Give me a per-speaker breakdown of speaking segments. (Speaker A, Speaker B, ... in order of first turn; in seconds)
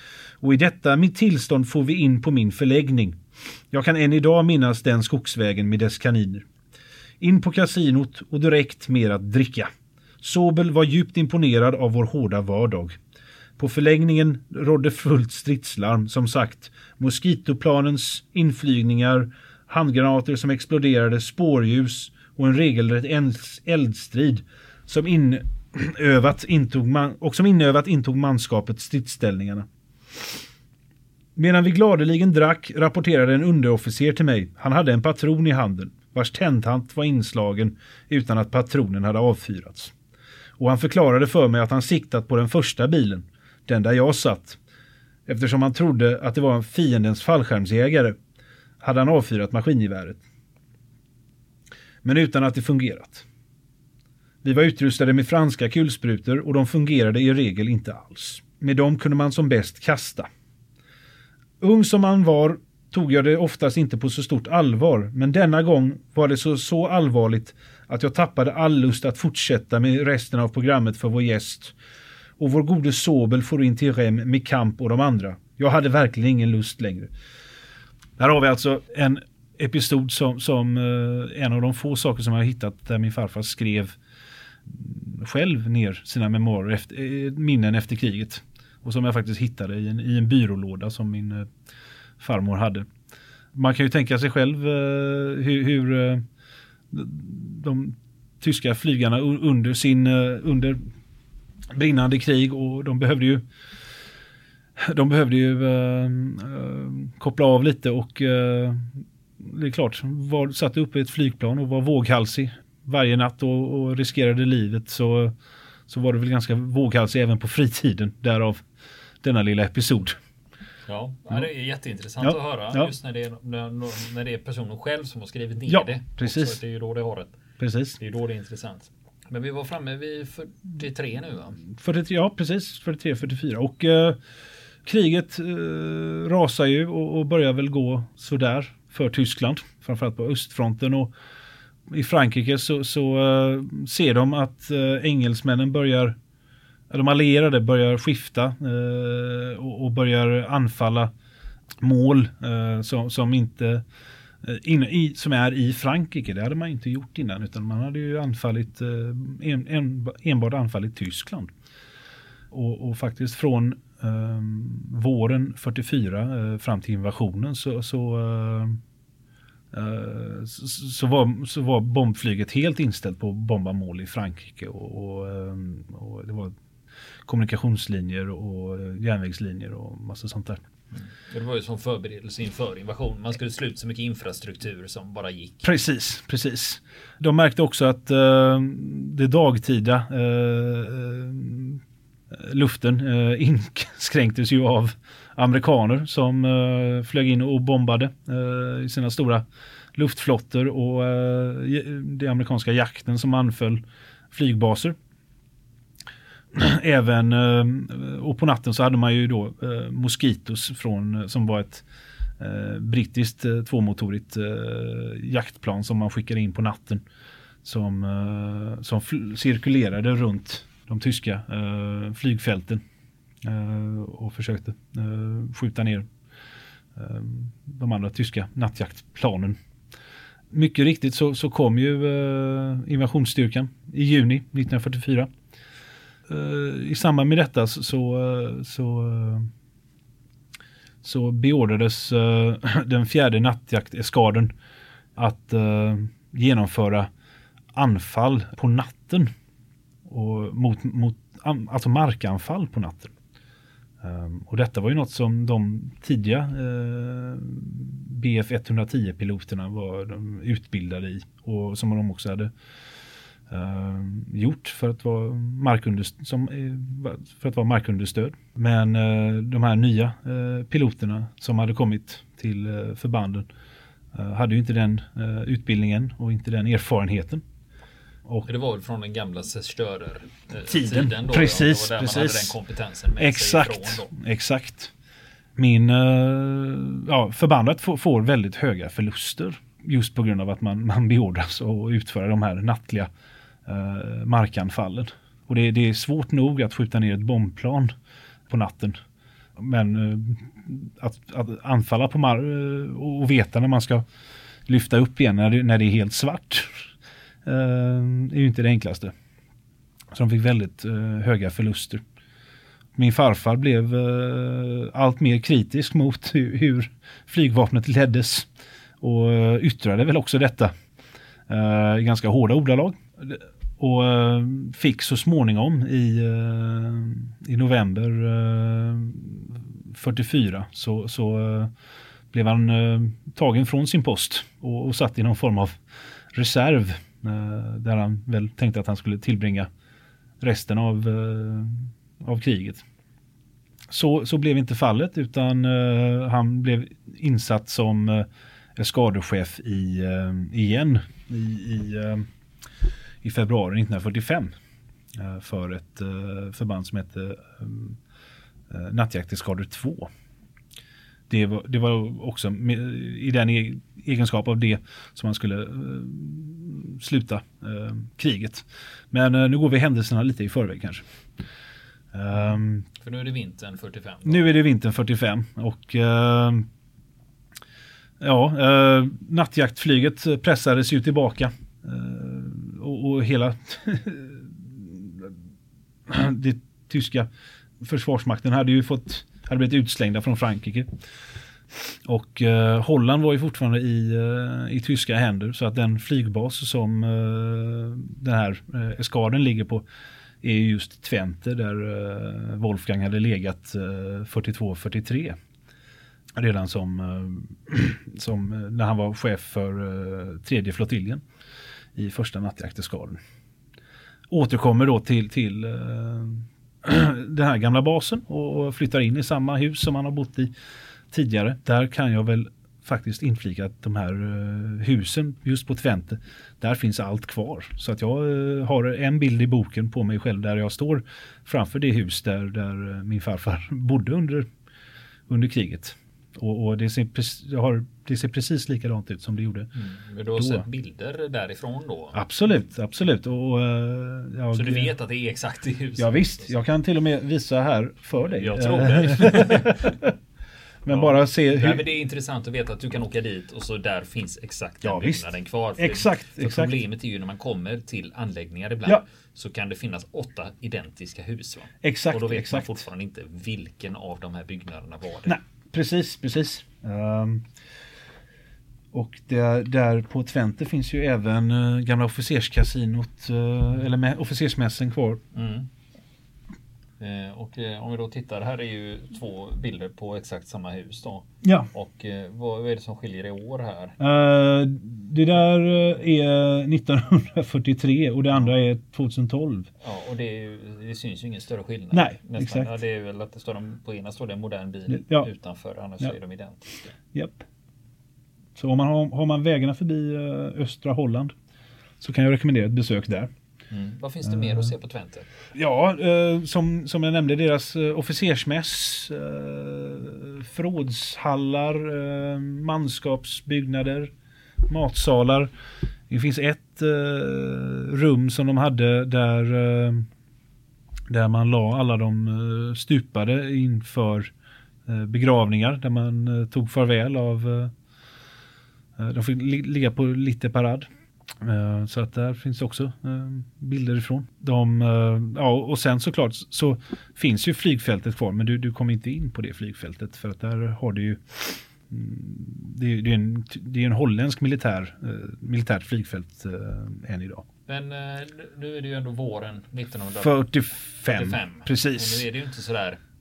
Speaker A: 0.4-3.2, 3.7-6.5, 7.2-9.7, 10.2-13.0, 13.6-30.4, 31.4-39.9, 40.6-44.6, 45.3-48.2, 48.8-50.2, 52.0-53.3, 54.4-60.3, 61.6-71.8, 72.4-77.1, 78.2-84.0, 84.7-91.5, 92.2-92.9, 93.5-96.2, 96.9-100.8, 101.7-103.4, 104.8-115.4, 115.9-118.6, 119.2-120.2, 122.2-122.9, 125.7-126.6, 127.6-128.0, 131.7-134.2, 134.8-141.1, 141.9-146.2, 146.9-151.1, 151.8-153.8, 154.4-161.5, 162.5-168.8, 169.7-176.6, 177.3-180.6, 185.6-205.0, 206.5-211.8, 212.4-217.0, 217.6-222.8, 223.4-226.1, 226.9-229.6, 230.5-235.3, 236.3-239.5, 241.0-244.5, 245.2-247.1, 247.7-249.3, 250.1-253.1, 254.0-262.5, 263.5-273.5, 274.1-277.4, 280.7-282.6, 283.2-284.9, 285.6-293.1, 293.7-297.9, 298.5-299.0, 299.6-304.1, 304.7-306.9, 307.4-309.1, 310.1-312.0, 312.9-318.5, 319.0-320.7, 321.5-331.7, 332.3-335.8, 336.3-339.7, 340.4-342.8, 343.9-352.3, 353.2-354.5, 355.1-358.0, 358.7-360.1, 361.3-371.0, 372.1-372.9, 374.2-376.7, 378.2-385.4, 386.1-387.3, 387.8-390.9, 391.7-399.9, 400.4-405.4, 406.4-411.2, 411.9-413.2, 414.3-420.5, 421.1-434.5, 435.3-439.7, 440.4-440.7, 442.1-444.9, 446.0-450.1, 450.8-451.8, 454.8-455.2, 455.8-456.8, 461.8-462.8, 465.3-467.5, 468.9-475.2, 481.4-481.7, 484.0-489.7, 491.9-492.7, 494.9-495.3, 497.1-497.5, 498.6-501.3, 502.0-503.3, 504.3-504.7, 505.5-514.1, 514.7-515.5, 516.1-520.1, 521.1-524.3, 524.9-527.7, 529.0-530.9, 531.4-547.5, 550.2-552.2
Speaker B: 120.9-127.4, 128.0-131.6, 181.0-185.7, 278.4-284.1, 373.0-374.5, 439.8-442.2, 444.5-446.6, 448.2-450.0, 450.9-465.4, 475.3-475.7, 477.0-484.0, 489.8-496.8, 503.7-505.3, 547.7-550.3, 551.1-553.0